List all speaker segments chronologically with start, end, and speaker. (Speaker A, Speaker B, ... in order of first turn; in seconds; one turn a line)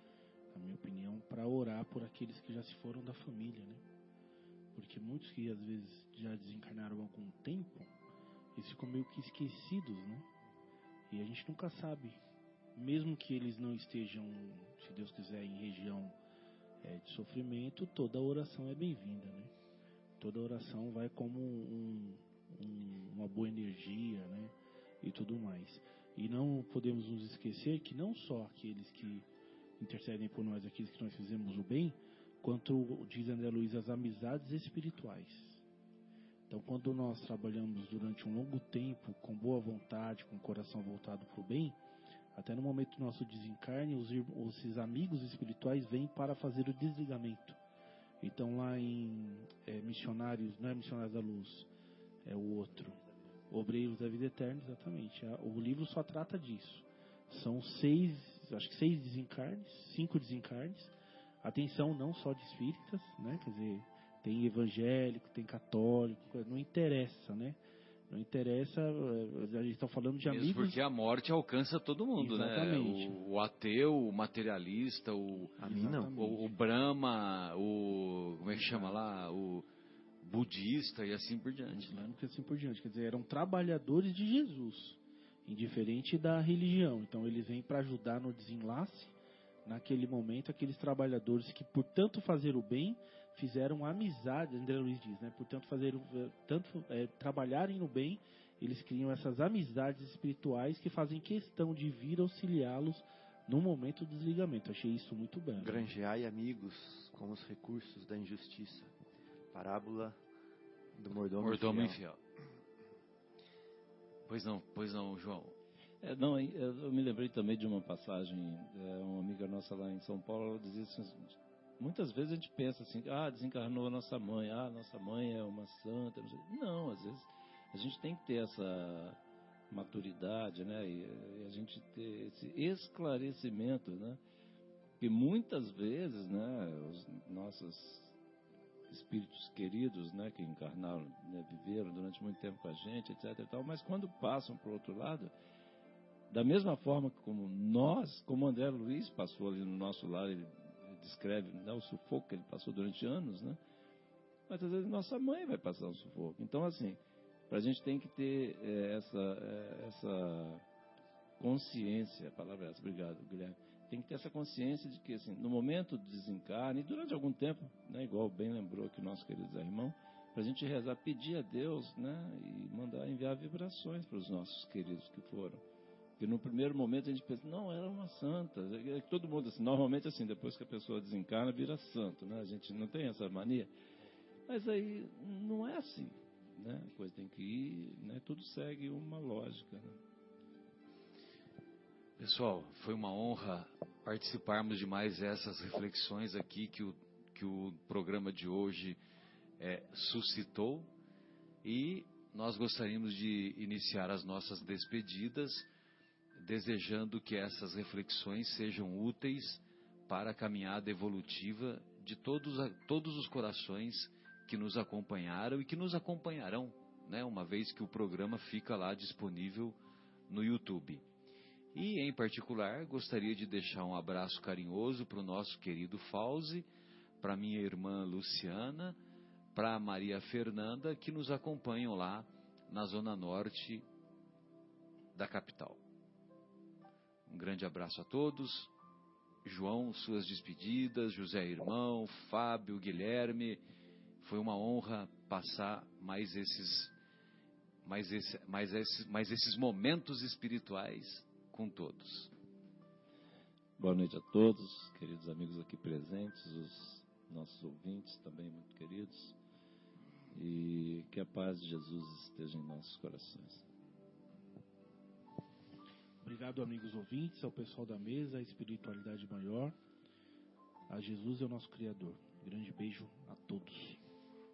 Speaker A: 0.5-3.8
Speaker A: 4.7-7.9
Speaker A: 8.6-10.3
Speaker A: 11.1-12.2
Speaker A: 12.8-16.1
Speaker A: 16.8-19.5
Speaker A: 20.2-29.3
Speaker A: 29.8-35.6
Speaker A: 36.5-41.8
Speaker A: 42.4-47.6
Speaker A: 48.2-51.7
Speaker A: 52.3-53.0
Speaker A: 53.5-67.6
Speaker A: 68.1-70.8
Speaker B: 70.3-75.5
Speaker A: 72.2-73.2
Speaker A: 75.6-76.5
Speaker C: 75.6-76.2
Speaker B: 76.1-79.7
Speaker A: 78.5-79.0
Speaker B: 80.2-82.0
Speaker A: 81.7-89.1
Speaker A: 89.7-105.9
Speaker C: 105.6-108.9
Speaker C: 109.5-110.2
Speaker C: 110.9-112.0
Speaker B: 111.4-112.2
Speaker B: 114.3-115.5
Speaker D: 116.0-129.2
Speaker D: 129.7-134.2
Speaker D: 135.0-138.1
Speaker D: 138.9-145.3
Speaker D: 146.3-153.6
Speaker D: 154.5-160.6
Speaker D: 161.4-175.6
Speaker D: 176.2-183.7
Speaker D: 184.5-190.0
Speaker B: 192.2-199.0
Speaker B: 199.6-200.9
Speaker B: 201.6-205.7
Speaker B: 206.4-219.8
Speaker B: 220.3-221.0
Speaker B: 221.7-226.7
Speaker B: 227.2-229.0
Speaker B: 229.6-233.8
Speaker B: 235.2-235.8
Speaker B: 237.3-238.7
Speaker B: 239.4-243.6
Speaker B: 244.2-246.9
Speaker B: 247.8-252.3
Speaker D: 253.8-259.4
Speaker D: 260.3-263.6
Speaker A: 266.2-269.8
Speaker A: 270.9-274.0